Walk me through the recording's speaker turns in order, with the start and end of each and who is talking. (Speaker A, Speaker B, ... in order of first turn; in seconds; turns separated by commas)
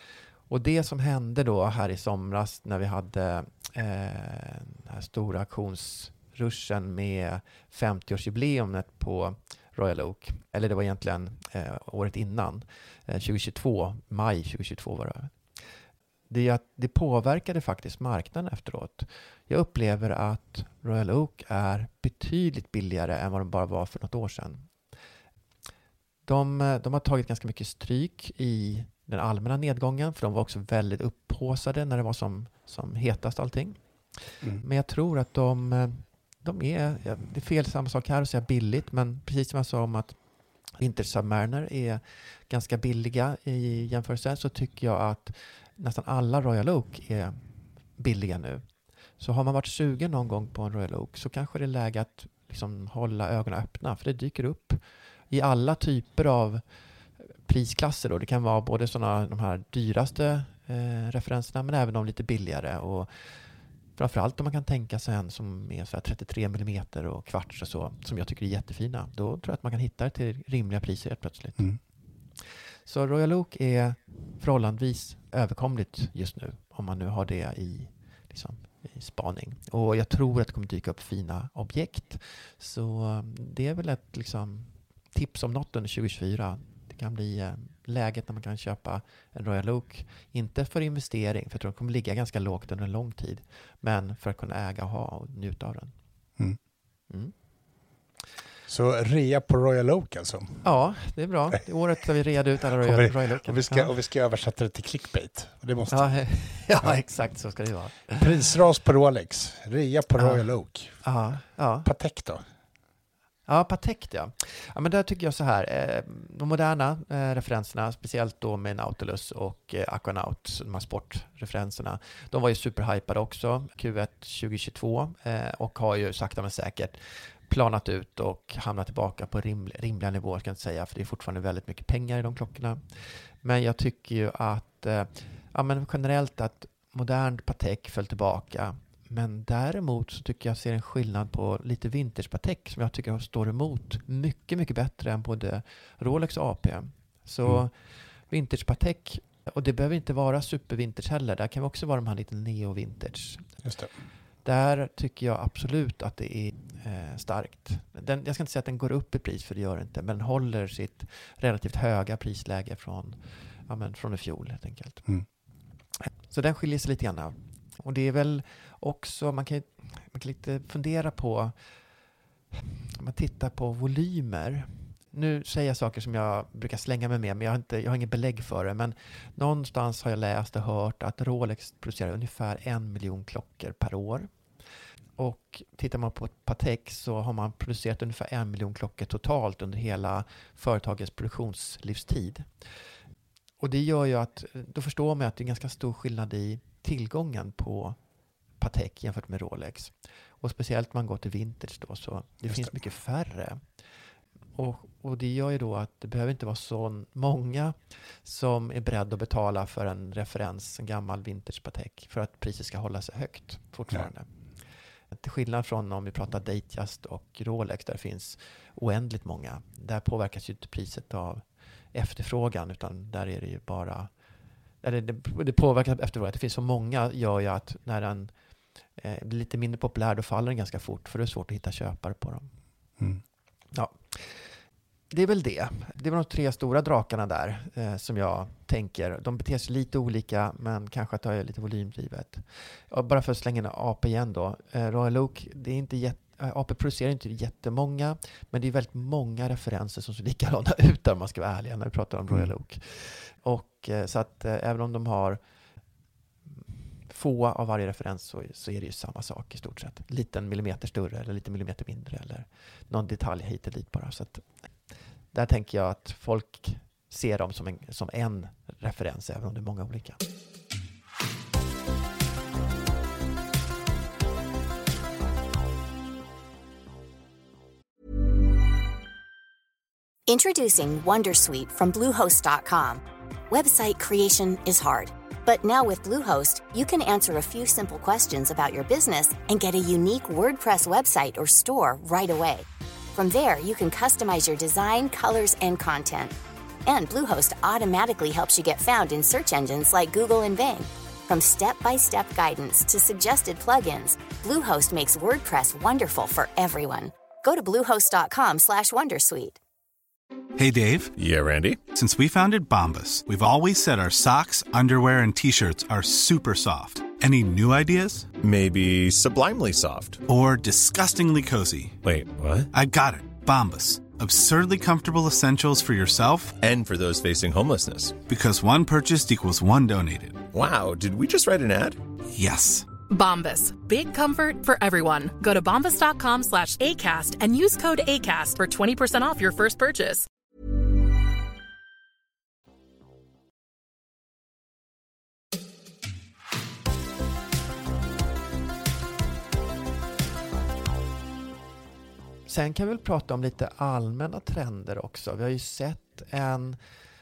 Speaker A: 0.5-15.3, Speaker A: 16.3-24.7, Speaker A: 26.2-33.8, Speaker A: 34.6-40.2, Speaker A: 40.8-47.4, Speaker A: 48.0-48.6, Speaker A: 49.2-56.6, Speaker A: 57.5-63.1, Speaker A: 64.0-71.7, Speaker A: 72.8-95.9, Speaker A: 97.1-97.3, Speaker B: 98.7-100.7, Speaker A: 100.6-103.9, Speaker B: 102.8-106.3, Speaker A: 105.9-108.3, Speaker B: 108.2-111.0, Speaker A: 110.2-110.4, Speaker A: 111.0-111.9, Speaker B: 111.8-112.4, Speaker A: 113.5-127.0, Speaker A: 127.5-132.8, Speaker A: 133.4-147.7, Speaker A: 148.3-153.5, Speaker B: 153.6-153.9, Speaker A: 154.4-165.1, Speaker A: 166.3-171.5, Speaker A: 172.5-184.3, Speaker A: 185.2-192.5, Speaker A: 193.6-198.0, Speaker A: 198.6-203.6, Speaker B: 202.4-202.8, Speaker A: 204.6-214.3, Speaker A: 215.1-224.1, Speaker A: 224.8-228.3, Speaker A: 229.0-232.5, Speaker A: 233.7-234.5, Speaker A: 235.1-255.4, Speaker A: 256.6-264.5, Speaker A: 265.3-270.2, Speaker C: 280.3-296.3, Speaker C: 296.9-309.6, Speaker D: 310.6-311.1, Speaker E: 311.1-311.8, Speaker D: 311.9-318.3, Speaker E: 318.4-320.2, Speaker D: 320.3-322.0, Speaker E: 322.0-322.7, Speaker D: 322.7-326.5, Speaker E: 326.6-328.2, Speaker D: 328.3-330.4, Speaker E: 330.5-332.0, Speaker D: 332.3-332.9, Speaker F: 333.1-340.3, Speaker A: 352.5-356.8